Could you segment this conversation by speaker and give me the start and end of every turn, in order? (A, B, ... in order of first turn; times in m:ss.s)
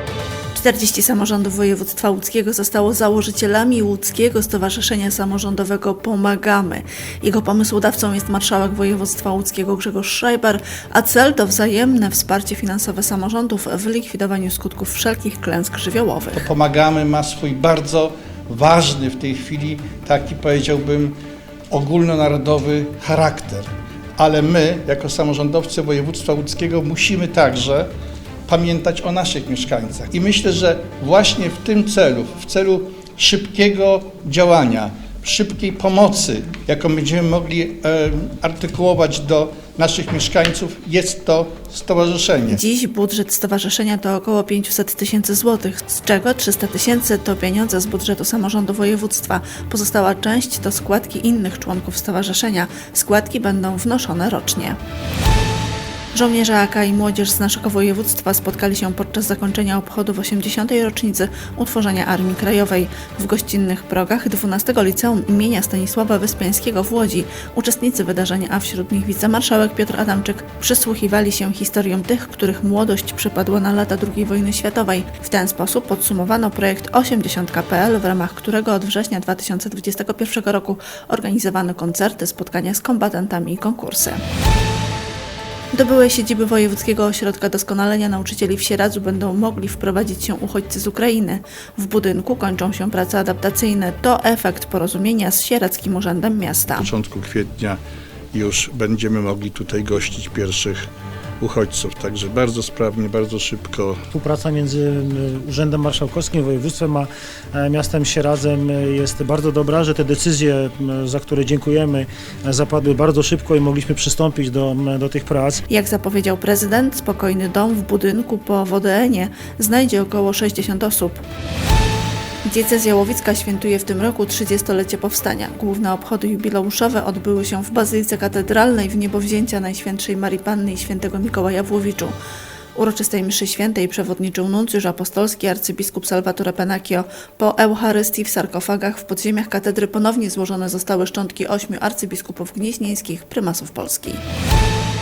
0:00.5-0:16.5 A
0:16.4-0:21.2 B
0:21.7-0:27.9 B
0:28.5-0:42.6 B
0:42.5-0:54.8 A
0:56.1-1:24.2 A
1:25.7-1:36.9 A
1:36.8-1:37.8 B
1:38.3-1:40.9 B
1:41.4-1:44.0 B
1:44.1-1:55.6 C
1:55.7-2:01.2 A
2:02.4-2:12.2 A
2:12.8-2:24.2 A